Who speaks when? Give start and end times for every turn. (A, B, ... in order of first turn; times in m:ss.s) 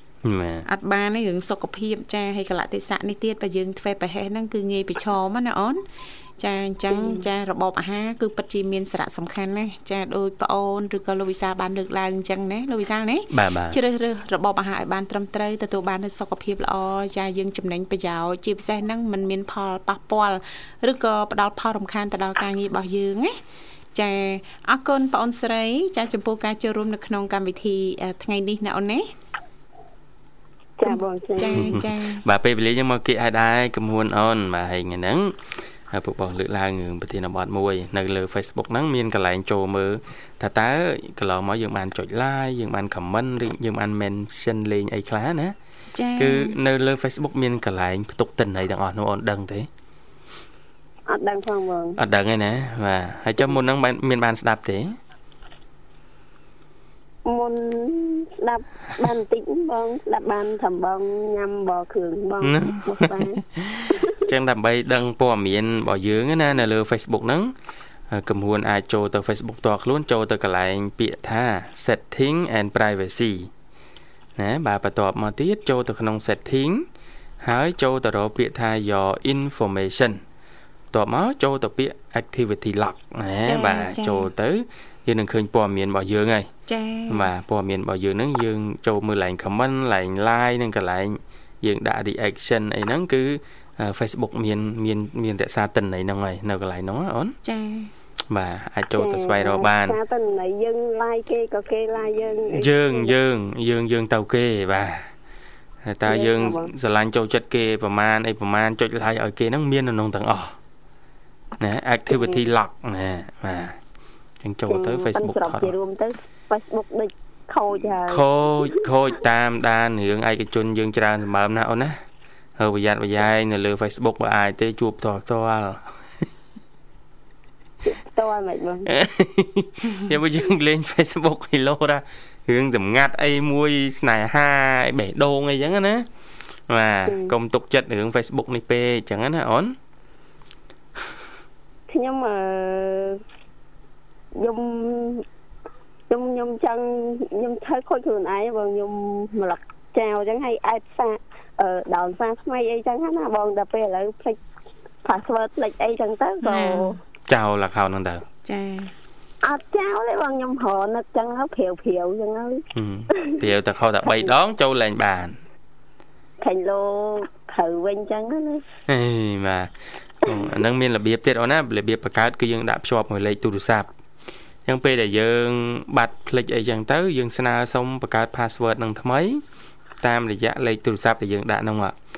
0:00.2-0:00.6 A
0:00.6-0:05.8 B
0:06.4-0:23.4 B
0:06.9-0:07.2 C
0:13.3-0:13.8 A
0:23.9-0:29.1 B
0:30.8-0:31.8 C
0:30.8-0:32.2 B
0:31.6-0:45.5 A
0:45.9-0:46.5 B
0:46.2-0:49.7 A
0:51.1-0:52.0 C
0:52.0-0:55.0 A
0:57.2-1:03.4 C
1:02.4-1:07.5 A
1:03.9-1:04.2 C
1:08.1-1:13.5 A
1:14.4-1:16.8 A
1:17.4-1:20.2 A
1:20.9-1:26.5 A
1:23.4-1:24.3 B
1:26.7-1:27.3 B
1:27.1-1:37.4 A
1:37.4-1:37.9 B
1:38.3-1:40.0 A
1:39.0-1:43.1 C
1:42.5-1:45.1 A
1:45.8-1:50.6 A
1:46.1-1:46.7 C
1:51.6-1:53.8 A
1:54.4-1:55.7 A
1:54.7-1:58.2 C
1:58.0-2:02.0 A
2:02.6-2:05.9 A
2:07.9-2:08.9 C
2:08.9-2:16.1 A
2:16.7-2:19.8 A
2:17.0-2:17.3 C
2:21.9-2:23.2 C
2:24.4-2:25.2 C
2:26.1-2:34.4 C
2:35.0-2:37.0 C
2:36.4-2:36.9 B
2:37.3-2:38.2 A
2:38.4-2:38.9 B
2:39.4-2:42.6 C
2:42.7-2:45.4 A
2:46.4-2:48.6 C
2:48.9-2:49.7 A
2:50.2-2:53.9 A
2:54.6-2:59.4 A
3:00.0-3:02.0 A